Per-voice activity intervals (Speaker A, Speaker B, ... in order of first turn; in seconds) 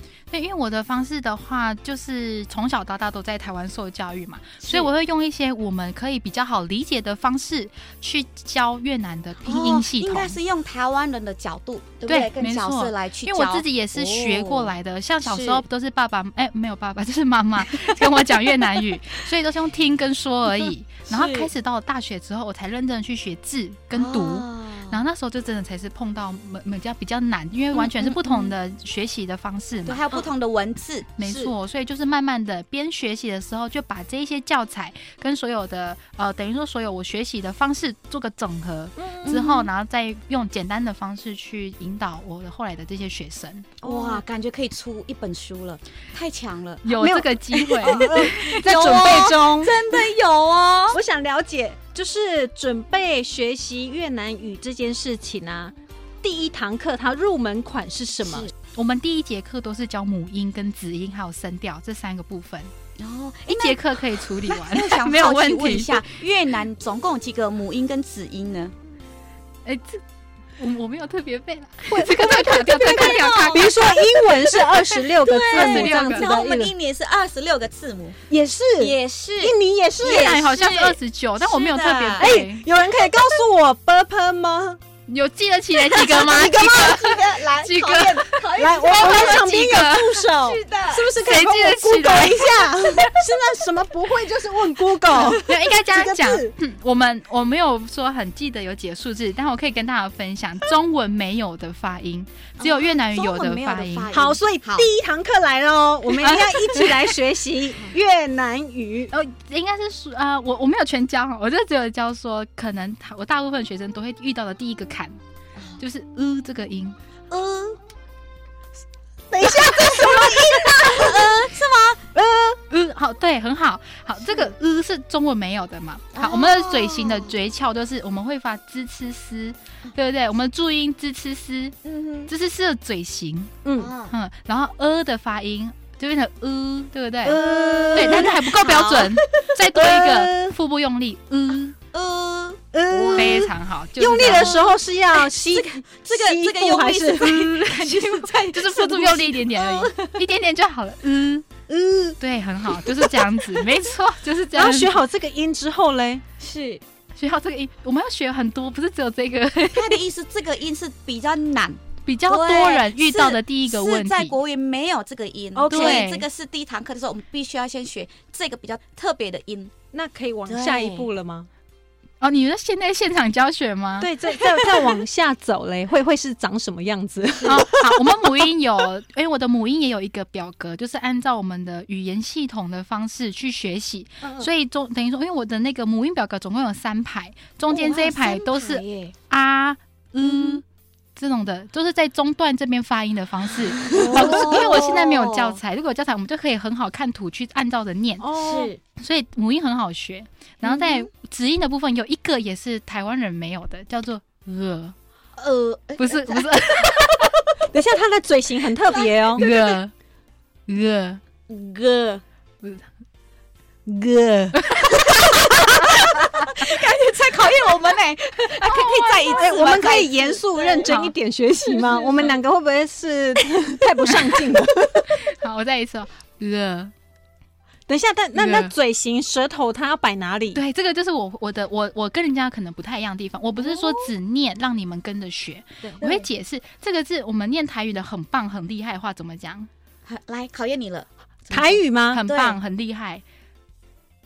Speaker A: 0.3-10.4, 12.1-30.0, 31.2-43.7, 46.8-48.6, 58.7-62.7, 63.5-66.0, 69.6-70.0, 70.6-73.8, 75.5-76.3, 80.0-82.6, 85.1-90.2, 91.2-92.5, 95.1-104.1, 106.2-106.9, 109.1-115.2, 115.8-117.0, 122.7-131.8, 132.3-133.6, 134.1-137.4, 137.9-141.8, 143.1-144.6, 147.7-151.5, 152.2-155.0, 157.2-160.0, 162.0-164.3, 165.7-166.2, 172.2-174.1, 177.4-190.6, 191.2-198.3, 199.0-204.9, 206.0-207.3, 209.3-209.9, 210.7-211.2, 212.6-212.9, 214.5-214.9, 218.6-219.7, 220.8-221.1, 225.1-226.9, 228.3-228.7, 230.5-239.7, 242.1-243.2
Speaker B: 4.6-4.9, 9.4-14.7, 15.2-15.6, 17.7-18.8, 21.1-21.5, 23.9-25.0, 27.7-28.5, 29.9-31.1, 39.2-39.7, 43.8-46.8, 47.8-51.0, 58.2-58.5, 63.0-68.7, 72.7-78.2, 78.8-82.3, 83.1-83.4, 85.9-91.2, 92.1-93.1, 95.1-95.4, 102.6-104.9, 117.3-117.8, 119.4-122.1, 126.1-127.3, 131.8-132.3, 133.8-134.1, 137.3-139.5, 141.9-143.5, 144.2-150.2, 156.4-156.8, 159.7-169.7, 170.5-171.1, 174.6-174.9, 187.7-189.1, 190.2-190.6, 193.8-195.6, 198.3-198.8, 200.6-201.1, 205.4-207.6, 208.9-209.8, 211.5-212.2, 214.9-221.0, 221.8-222.3, 233.6-234.1, 235.9-236.3, 240.1-242.6
Speaker C: 31.2-31.5, 39.0-39.4, 43.8-44.2, 47.0-50.0, 50.9-58.5, 71.9-76.7, 78.3-80.4, 82.2-84.8, 86.1-86.8, 88.6-96.5, 104.1-109.1, 119.3-121.3, 122.1-122.6, 133.6-133.9, 137.2-138.4, 139.7-140.5, 142.7-147.7, 151.7-152.2, 154.5-156.2, 165.5-166.1, 169.9-171.5, 174.0-178.2, 184.2-184.5, 193.9-194.6, 198.2-198.7, 207.7-209.4, 211.8-212.0, 213.8-214.7, 219.3-225.2, 227.9-230.6, 241.5-242.2